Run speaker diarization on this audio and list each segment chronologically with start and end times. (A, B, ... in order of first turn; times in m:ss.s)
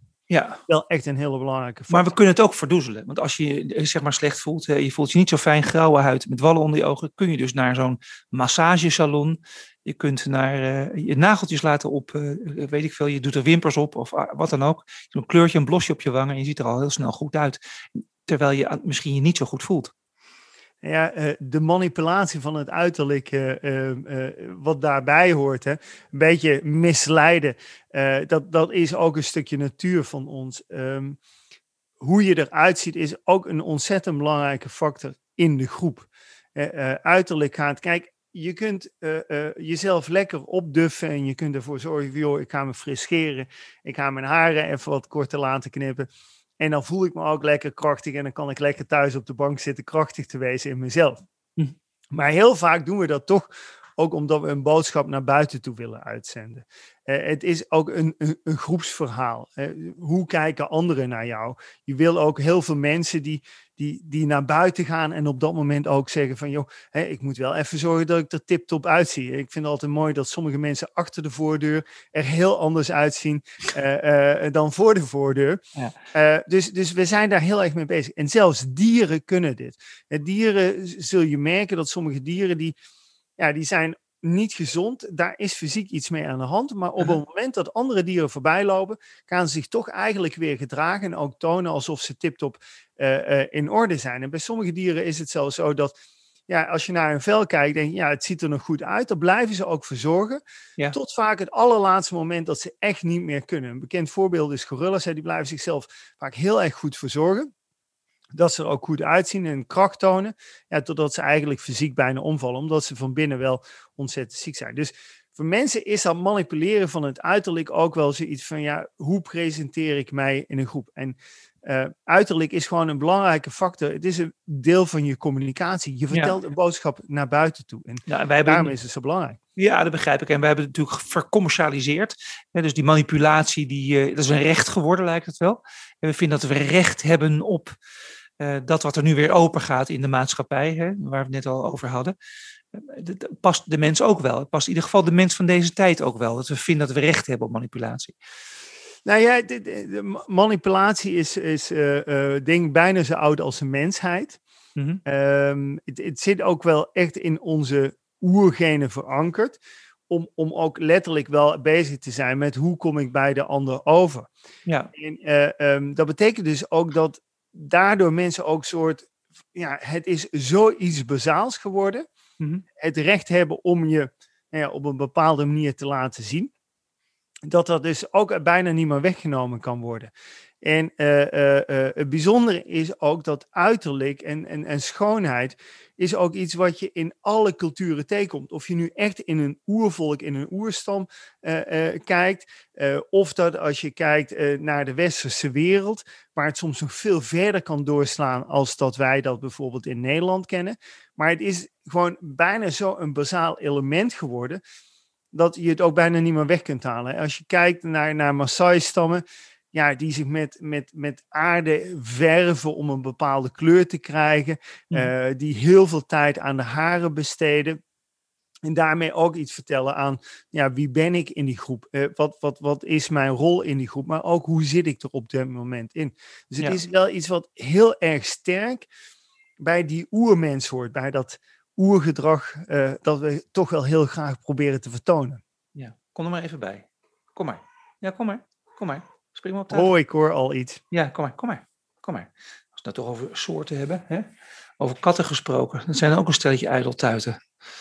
0:00.3-0:00.6 A
0:00.7-0:02.2 B
0:01.9-0:17.6 A
0:18.3-0:19.9 A
0:20.8-0:31.2 B
0:32.0-0:46.1 B
0:46.6-0:51.2 B
0:52.1-1:15.6 B
1:16.1-1:22.8 B
1:23.4-1:35.9 B
1:36.5-1:40.4 B
1:40.9-1:47.5 B
1:48.4-2:09.4 B
2:08.1-2:08.7 A
2:09.6-2:17.8 A
2:18.4-2:22.2 A
2:22.7-2:28.2 A
2:29.1-2:34.4 B
2:34.8-2:35.0 A
2:35.1-2:39.6 B
2:40.1-2:44.3 B
2:45.0-2:52.0 B
2:52.8-2:56.5 B
2:57.5-3:00.1 B
3:00.6-3:24.6 B
3:25.3-3:37.8 B
3:38.7-3:48.9 B
3:49.6-3:55.4 B
3:55.8-3:59.9 A
3:59.7-4:00.8 B
4:00.9-4:04.3 A
4:04.8-4:07.4 A